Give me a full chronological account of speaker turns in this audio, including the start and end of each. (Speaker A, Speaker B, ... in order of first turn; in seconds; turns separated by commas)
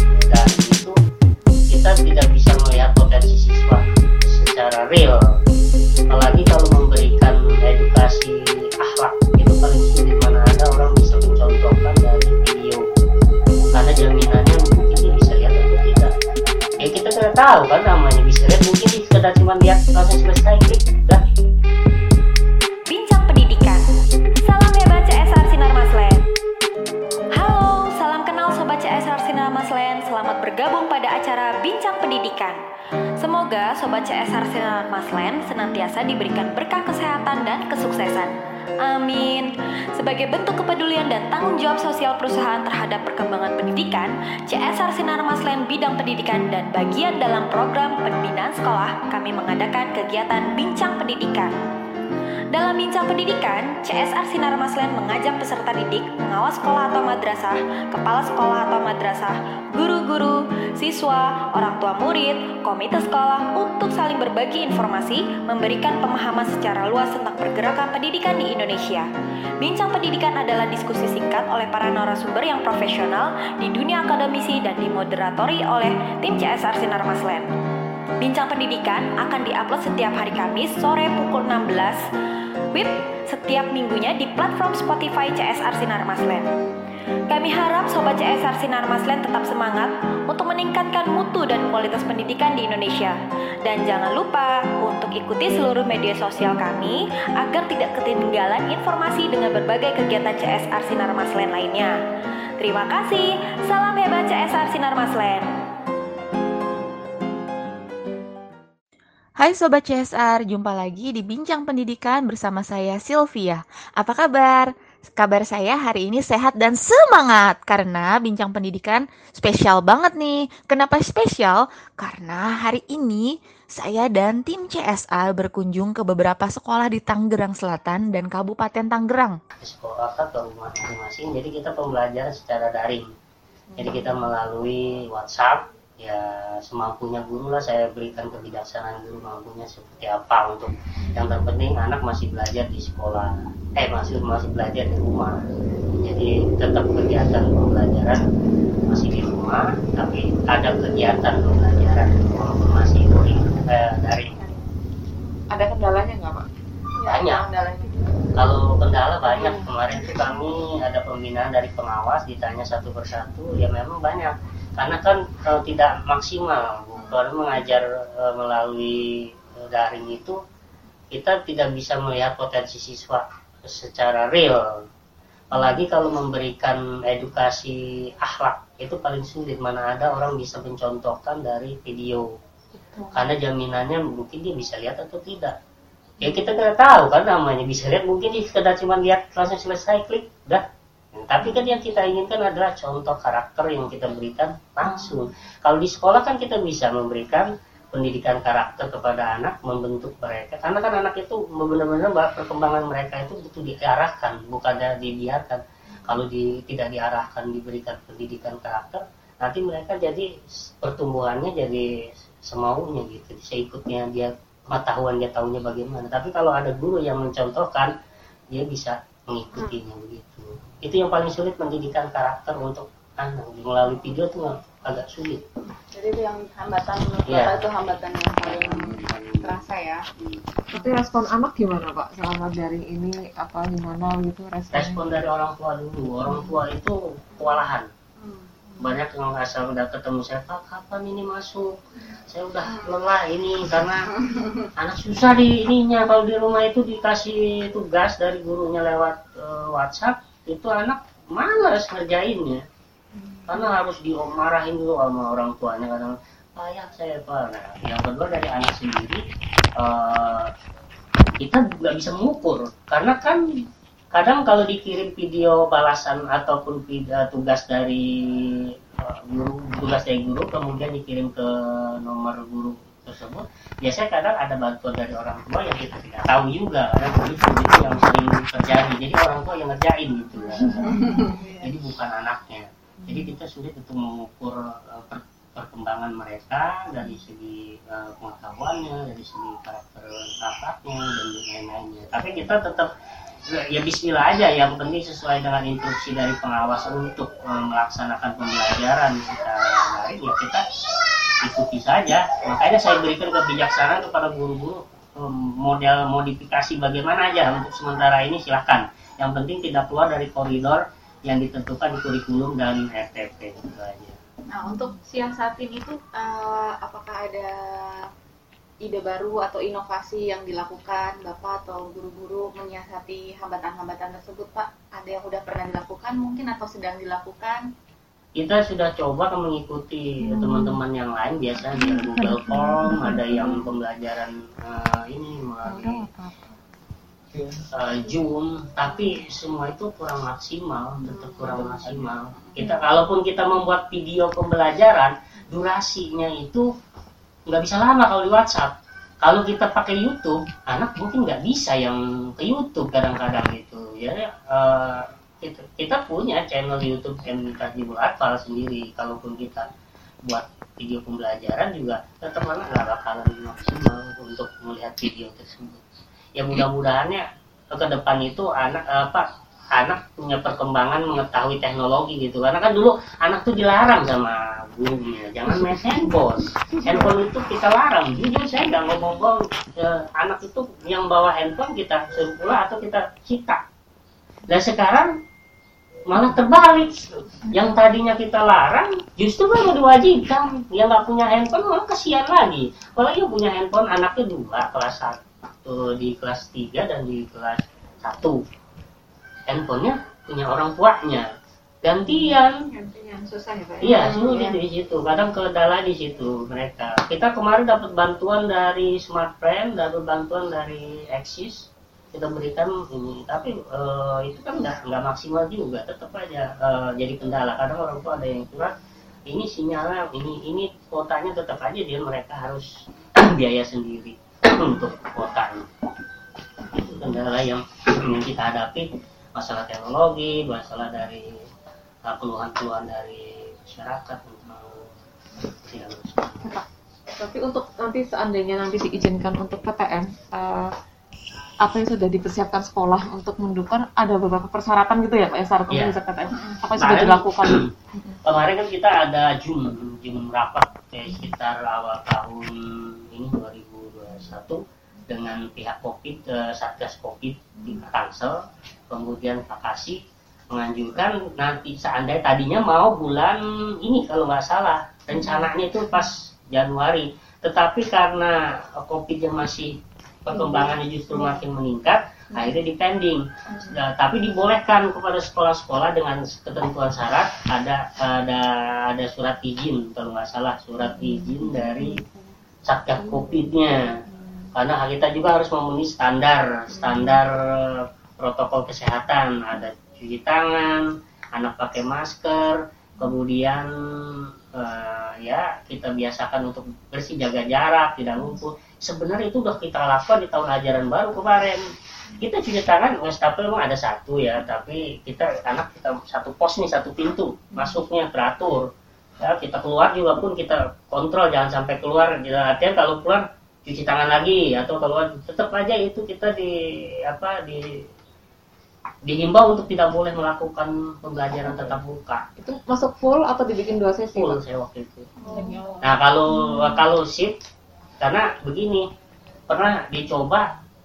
Speaker A: 0.1-0.9, Speaker A: 1.7-5.2, Speaker A: 6.1-12.8, Speaker A: 13.7-16.1, Speaker A: 16.8-21.2, Speaker B: 22.9-23.8, Speaker B: 24.4-26.2, Speaker B: 27.3-32.6, Speaker B: 33.2-51.5, Speaker B: 52.5-69.1, Speaker B: 69.6-77.5, Speaker B: 78.2-82.0, Speaker B: 82.7-86.5, Speaker B: 87.3-101.9, Speaker B: 102.6-105.5, Speaker C: 109.4-129.4, Speaker A: 129.6-133.1, Speaker D: 133.7-134.1, Speaker A: 133.8-148.2, Speaker A: 148.9-154.4, Speaker E: 155.5-156.5, Speaker E: 157.0-157.9, Speaker A: 157.1-157.4, Speaker A: 158.3-170.4, Speaker E: 159.3-159.7, Speaker A: 171.1-174.8, Speaker A: 175.5-182.3, Speaker E: 182.8-183.1, Speaker A: 183.1-185.5, Speaker A: 186.2-190.6, Speaker A: 191.2-210.3, Speaker A: 210.8-211.9, Speaker A: 212.5-217.9, Speaker A: 218.5-225.4, Speaker D: 225.9-230.0, Speaker A: 227.2-227.7, Speaker A: 228.4-229.7, Speaker A: 230.2-230.4, Speaker E: 230.7-235.0, Speaker A: 234.7-237.9, Speaker D: 238.2-238.5, Speaker A: 238.8-244.1, Speaker A: 244.8-252.6, Speaker A: 253.5-259.2, Speaker A: 259.8-260.5, Speaker A: 261.4-263.4, Speaker A: 264.1-292.9, Speaker D: 280.8-281.5, Speaker A: 293.5-300.6, Speaker A: 301.4-314.2, Speaker D: 314.5-318.1, Speaker D: 318.8-327.7, Speaker A: 328.4-336.1, Speaker D: 330.3-330.8, Speaker D: 331.8-333.6, Speaker D: 335.7-336.5, Speaker A: 337.7-346.7, Speaker D: 341.0-342.8, Speaker A: 347.5-359.7, Speaker A: 360.3-365.8, Speaker A: 366.4-383.6, Speaker A: 384.5-385.2, Speaker A: 386.1-398.4, Speaker A: 399.5-401.3, Speaker A: 401.8-402.6, Speaker E: 402.9-404.0, Speaker A: 403.8-418.7, Speaker A: 419.3-425.7, Speaker A: 426.7-431.3, Speaker A: 432.1-436.5, Speaker E: 437.2-440.7, Speaker E: 441.6-447.6, Speaker A: 445.7-446.0, Speaker A: 446.8-447.7, Speaker A: 448.2-452.6, Speaker A: 453.1-460.0, Speaker A: 460.5-482.0, Speaker A: 482.6-483.9, Speaker A: 484.5-493.7, Speaker A: 494.5-501.6, Speaker A: 502.2-508.7, Speaker A: 509.2-516.5, Speaker A: 517.1-517.6, Speaker A: 519.1-522.2, Speaker E: 522.4-524.4, Speaker A: 524.1-525.1, Speaker E: 525.3-525.8, Speaker A: 525.8-527.4, Speaker A: 528.0-528.9, Speaker A: 529.5-530.5